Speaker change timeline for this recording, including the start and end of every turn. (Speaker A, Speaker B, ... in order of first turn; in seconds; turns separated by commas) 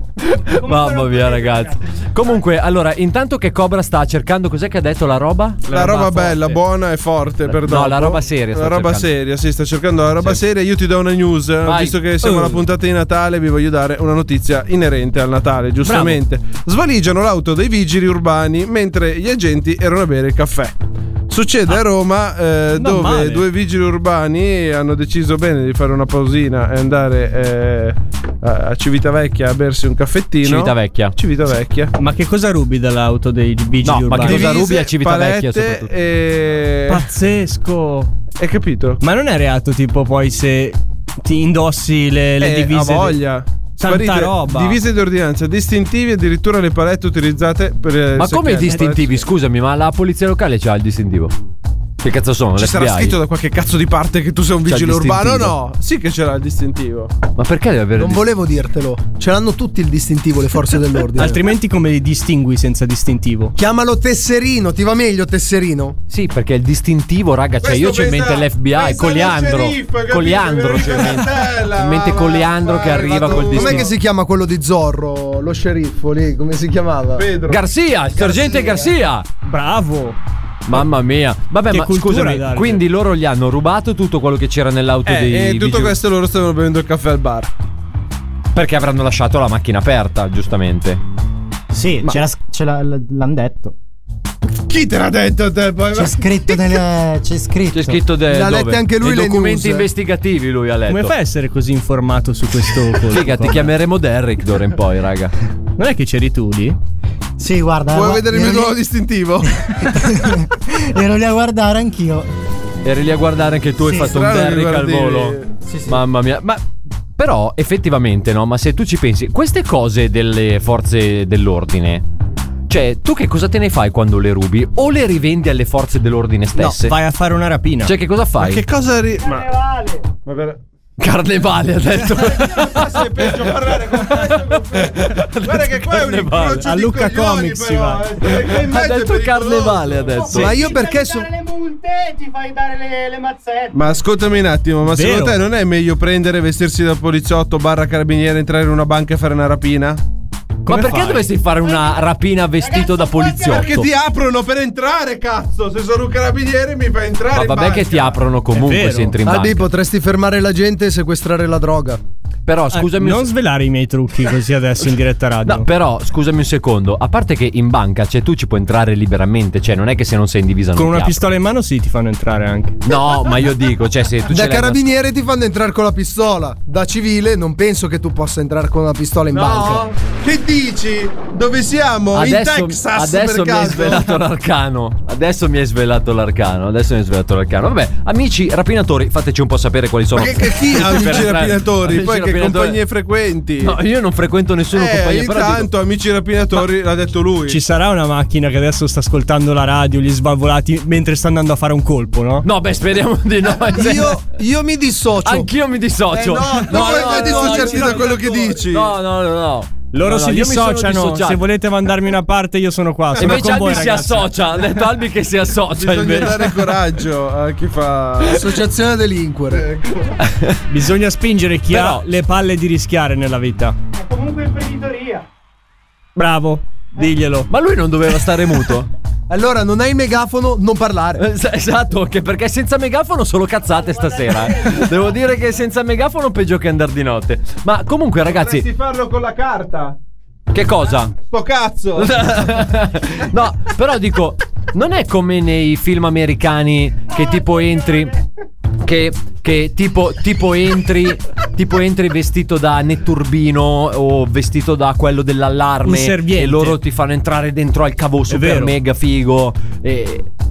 Speaker A: 0.3-5.9, Speaker B: 0.6-2.4, Speaker C: 5.7-6.5, Speaker D: 5.7-20.8, Speaker A: 7.5-9.1, Speaker A: 11.7-12.0, Speaker C: 12.3-12.6, Speaker C: 15.8-16.2, Speaker D: 21.3-31.9, Speaker C: 22.8-23.5, Speaker A: 30.4-31.1, Speaker C: 31.9-34.5, Speaker A: 33.8-35.9, Speaker D: 34.2-37.1, Speaker C: 36.9-38.1, Speaker D: 38.4-39.0, Speaker C: 39.0-43.2, Speaker D: 42.4-49.2, Speaker C: 43.8-44.8, Speaker A: 48.1-51.4, Speaker A: 52.0-53.2, Speaker D: 52.6-57.1, Speaker A: 54.7-55.5, Speaker A: 57.4-58.3, Speaker E: 58.0-61.4, Speaker C: 61.2-63.6, Speaker E: 63.6-66.0, Speaker A: 66.1-73.9, Speaker D: 67.6-73.9, Speaker E: 73.5-77.3, Speaker D: 77.2-77.6, Speaker A: 77.5-79.3, Speaker C: 79.4-80.2, Speaker A: 80.7-86.0, Speaker C: 81.7-82.8, Speaker D: 85.1-87.5, Speaker A: 88.5-91.0, Speaker F: 91.7-93.8, Speaker D: 94.7-96.8, Speaker F: 95.9-98.0, Speaker A: 97.7-101.2, Speaker E: 98.3-99.9, Speaker C: 100.9-103.7, Speaker A: 103.1-105.3, Speaker C: 105.8-106.8, Speaker F: 107.4-108.8, Speaker D: 107.9-110.2, Speaker F: 109.8-112.3, Speaker A: 112.8-116.6, Speaker D: 113.8-115.5, Speaker F: 115.7-116.0, Speaker A: 117.2-122.1, Speaker A: 122.7-127.0, Speaker C: 126.6-127.9, Speaker A: 127.8-128.6, Speaker D: 128.4-129.5, Speaker B: 129.2-130.1, Speaker D: 130.2-130.6, Speaker A: 131.0-133.5, Speaker D: 132.1-140.4, Speaker A: 134.1-136.7, Speaker C: 136.6-138.1, Speaker A: 138.2-140.8, Speaker B: 140.2-144.0, Speaker E: 140.3-141.3, Speaker D: 143.7-150.0, Speaker C: 144.8-145.4, Speaker C: 150.7-151.3, Speaker A: 150.7-153.9, Speaker B: 151.6-153.8, Speaker D: 153.4-158.2, Speaker A: 157.3-159.7, Speaker C: 158.5-159.2, Speaker E: 159.2-162.0, Speaker A: 162.5-163.3, Speaker C: 162.7-165.7, Speaker A: 165.4-171.2, Speaker C: 170.8-172.8, Speaker A: 172.8-174.9, Speaker E: 174.3-179.9, Speaker D: 179.3-184.2, Speaker A: 182.1-192.8, Speaker D: 190.2-193.8, Speaker A: 193.6-195.7, Speaker D: 194.7-197.6, Speaker C: 197.5-202.5, Speaker A: 202.4-204.3, Speaker E: 203.7-205.5, Speaker A: 205.2-211.4, Speaker E: 206.1-208.5, Speaker D: 206.7-208.9, Speaker C: 209.9-214.5, Speaker A: 213.2-216.6, Speaker D: 215.7-218.6, Speaker E: 218.2-219.7, Speaker D: 219.5-220.2, Speaker A: 220.3-220.6, Speaker C: 220.7-223.8, Speaker A: 221.7-222.0, Speaker B: 223.9-225.3, Speaker C: 226.2-227.5, Speaker A: 227.5-228.9, Speaker E: 229.3-231.2, Speaker A: 231.2-238.7, Speaker B: 233.6-235.2, Speaker D: 238.2-240.0, Speaker A: 240.5-241.2, Speaker D: 241.2-242.6, Speaker A: 242.0-248.1, Speaker A: 248.8-260.3, Speaker C: 255.8-256.8, Speaker C: 258.3-258.8